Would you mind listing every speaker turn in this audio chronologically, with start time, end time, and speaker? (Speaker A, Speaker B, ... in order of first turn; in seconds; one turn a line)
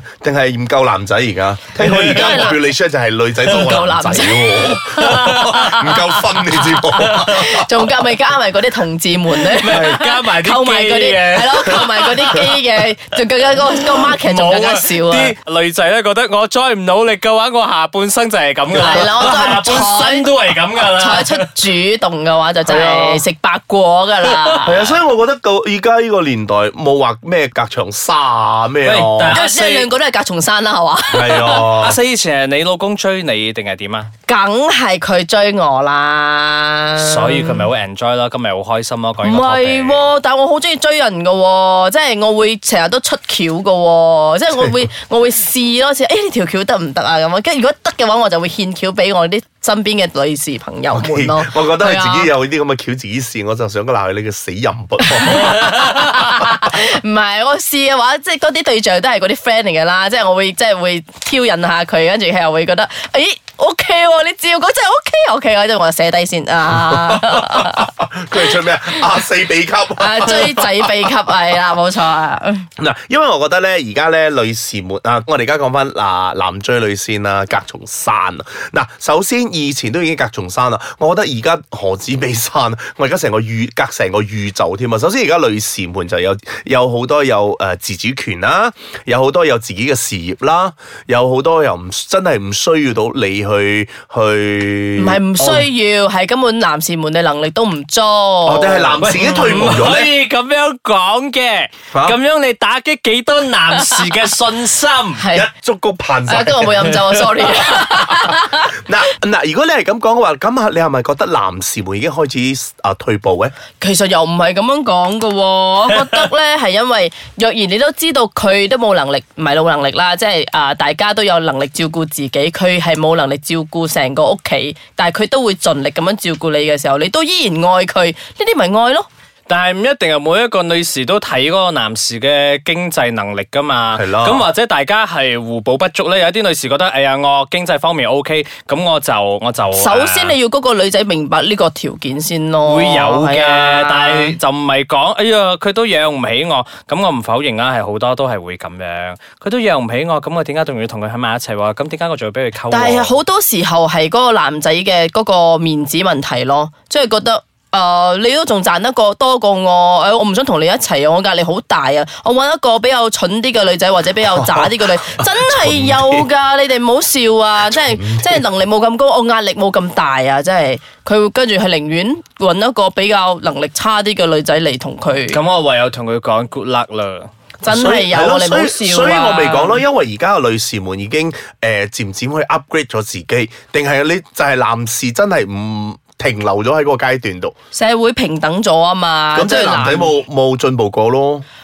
Speaker A: 0.2-7.7
Speaker B: 1.8-2.5
Speaker C: 1.9-2.6
Speaker C: 3.4-15.3
Speaker B: 5.0-6.3
Speaker B: 6.9-7.5
Speaker B: 9.4-12.6
Speaker A: 9.7-10.0
Speaker B: 13.9-21.5
Speaker C: 18.8-20.3
Speaker C: 20.9-24.8
Speaker A: 22.7-23.2
Speaker B: 24.2-24.9
Speaker A: 24.6-29.4
Speaker B: 28.8-29.9
Speaker C: 29.3-31.7
Speaker A: 31.1-32.0
Speaker B: 31.2-34.1
Speaker C: 34.3-37.7
Speaker B: 37.0-40.0
Speaker C: 39.2-52.3
Speaker A: 50.9-55.7
Speaker C: 55.0-69.0
Speaker A: 66.7-71.0
Speaker C: 70.0-72.7
Speaker A: 72.8-95.7
Speaker C: 95.0-99.8
Speaker A: 98.5-100.1
Speaker B: 99.0-105.2
Speaker A: 101.9-102.2
Speaker C: 105.2-105.5
Speaker A: 105.3-107.0
Speaker C: 106.3-108.7
Speaker A: 108.0-113.5
Speaker C: 113.8-129.1
Speaker B: 129.5-140.3
Speaker A: 133.9-134.4
Speaker C: 139.7-144.3
Speaker B: 142.6-153.1
Speaker C: 152.7-175.4
Speaker A: 164.3-166.3
Speaker A: 167.7-168.4
Speaker B: 175.3-177.3
Speaker C: 177.6-179.8
Speaker A: 177.7-187.5
Speaker C: 187.7-190.1
Speaker A: 189.3-191.4